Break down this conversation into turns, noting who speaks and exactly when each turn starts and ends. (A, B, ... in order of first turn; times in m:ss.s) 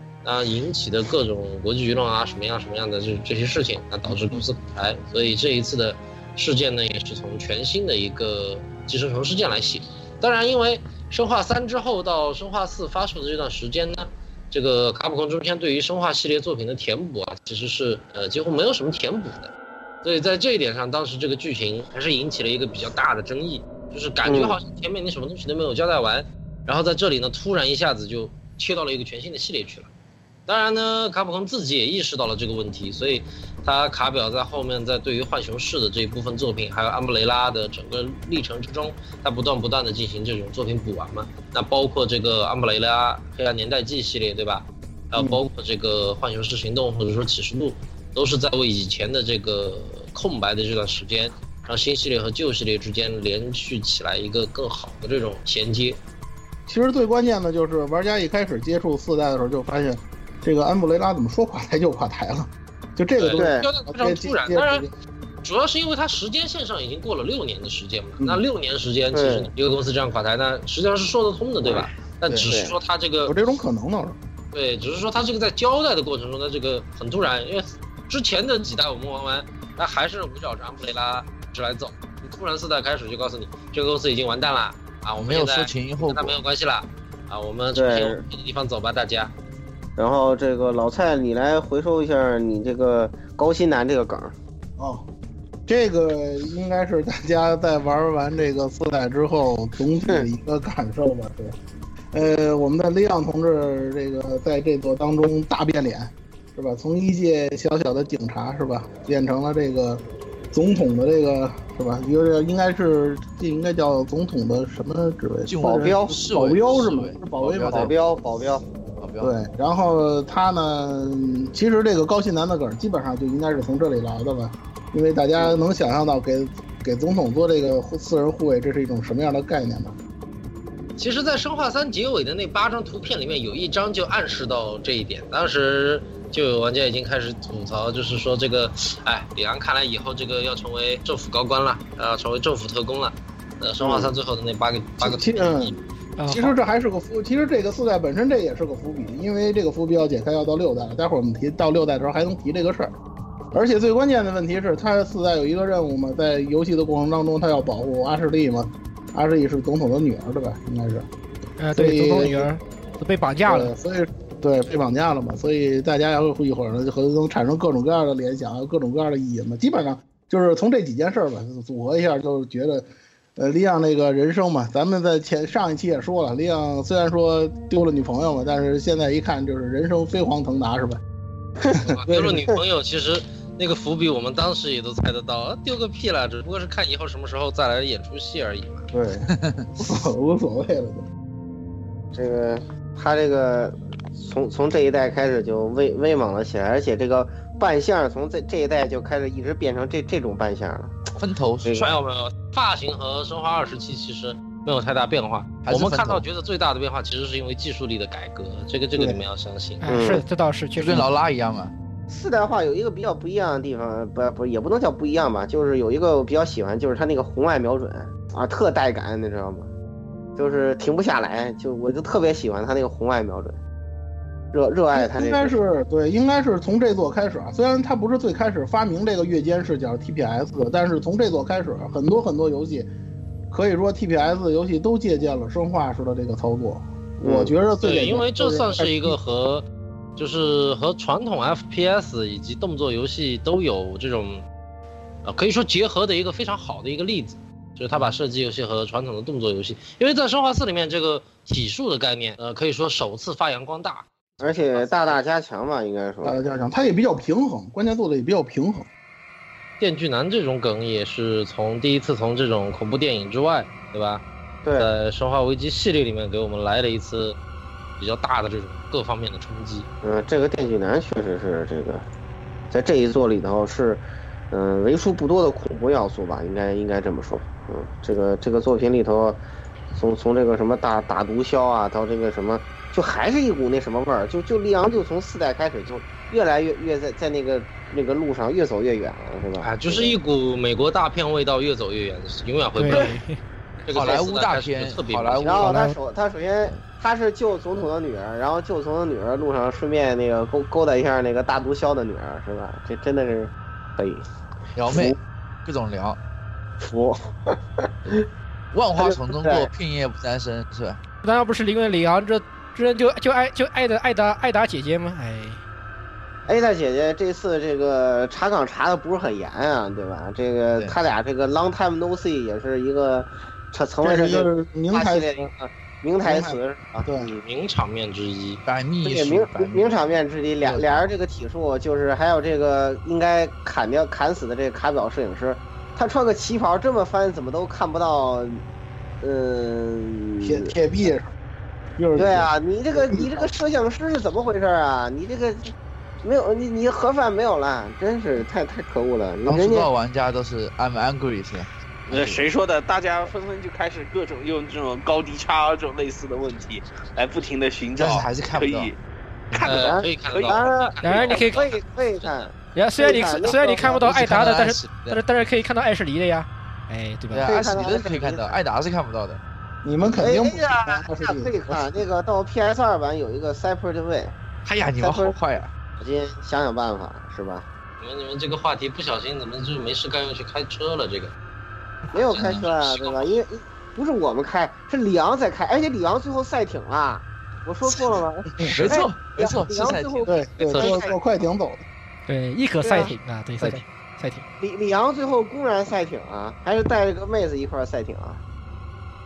0:00.2-0:29.9 A
0:24.3-0:24.6 B
0:30.5-0:56.0 A
0:45.2-0:45.4 C
0:56.7-1:04.9 C
1:03.2-1:04.9 A
1:03.3-1:03.7 B
1:05.4-1:13.4 A
1:09.1-1:09.5 B
1:12.5-1:12.8 B
1:13.2-1:14.2 C
1:14.5-1:29.3 A
1:25.2-1:26.4 D
1:27.8-1:28.2 B
1:30.0-1:34.3 B
1:34.8-1:35.1 C
1:35.7-1:41.6 C
1:42.1-1:57.9 C
1:55.5-1:58.0 D
1:55.6-1:56.2 B
1:57.7-1:58.6 B
1:59.0-1:59.4 D
1:59.2-2:10.0 C
2:11.0-2:25.8 A
2:23.8-2:24.1 B
2:25.0-2:25.8 C
2:26.2-2:26.6 E
2:26.3-2:33.0 C
2:33.5-2:41.1 C
2:41.6-2:43.7 E
2:41.8-2:42.5 C
2:43.5-3:01.0 C
3:01.7-3:02.5 C
3:01.8-3:08.9 A
3:08.9-3:11.1 C
3:09.3-3:09.7 D
3:12.1-3:21.1 B
3:21.2-3:21.8 D
3:21.6-3:22.0 B
3:21.8-3:30.0 A
3:25.6-3:26.3 D
3:29.8-3:31.1 E
3:29.9-3:30.2 B
3:30.8-3:31.7 D
3:32.1-3:39.7 B
3:40.4-3:43.6 B
3:44.5-3:45.6 B
3:44.9-3:52.9 C
3:53.5-3:59.2 C
3:57.2-3:57.6 B
3:57.8-4:04.4 A
4:05.2-4:15.2 A
4:14.4-4:16.4 B
4:16.2-4:18.9 C
4:19.8-4:24.2 A
4:24.6-4:24.9 B
4:24.8-4:27.4 A
4:28.0-4:29.9 A
4:30.0-4:32.0 B
4:32.7-4:39.4 B
4:39.9-4:50.2 B
4:49.6-4:53.1 A
4:52.8-4:53.4 E
4:53.9-4:55.7 A
4:53.9-4:55.8 D
4:55.4-5:04.3 B
4:55.6-4:56.0 E
5:04.8-5:06.2 D
5:04.8-5:05.2 B
5:06.8-5:08.3 B
5:08.7-5:11.0 D
5:09.0-5:09.7 B
5:11.2-5:15.6 E
5:16.5-5:27.4 B
5:24.0-5:25.5 C
5:26.2-5:27.3 C
5:27.4-5:28.6 A
5:28.7-5:30.0 D
5:29.0-5:38.6 B
5:30.6-5:31.1 D
5:39.2-5:41.1 B
5:40.4-5:41.3 C
5:42.0-5:43.5 C
5:42.2-5:49.9 B
5:49.5-5:52.4 D
5:52.1-5:59.0 F
5:58.0-5:58.9 D
5:59.5-5:59.9 D
5:59.6-6:04.1 B
5:59.6-6:02.5 A
6:00.3-6:00.7 F
6:01.0-6:01.6 E
6:02.8-6:07.5 E
6:03.9-6:05.2 D
6:07.3-6:09.4 D
6:07.4-6:08.6 B
6:09.8-6:12.0 C
6:10.2-6:14.4 B
6:14.7-6:15.7 D
6:15.0-6:15.4 B
6:16.0-6:17.7 B
6:18.0-6:21.3 A
6:22.1-6:31.2 B
6:22.2-6:23.4 A
6:22.3-6:22.7 D
6:28.6-6:30.4 D
6:30.3-6:31.8 C
6:30.6-6:31.1 A
6:32.3-6:34.4 E
6:32.8-6:33.2 B
6:34.6-6:38.4 B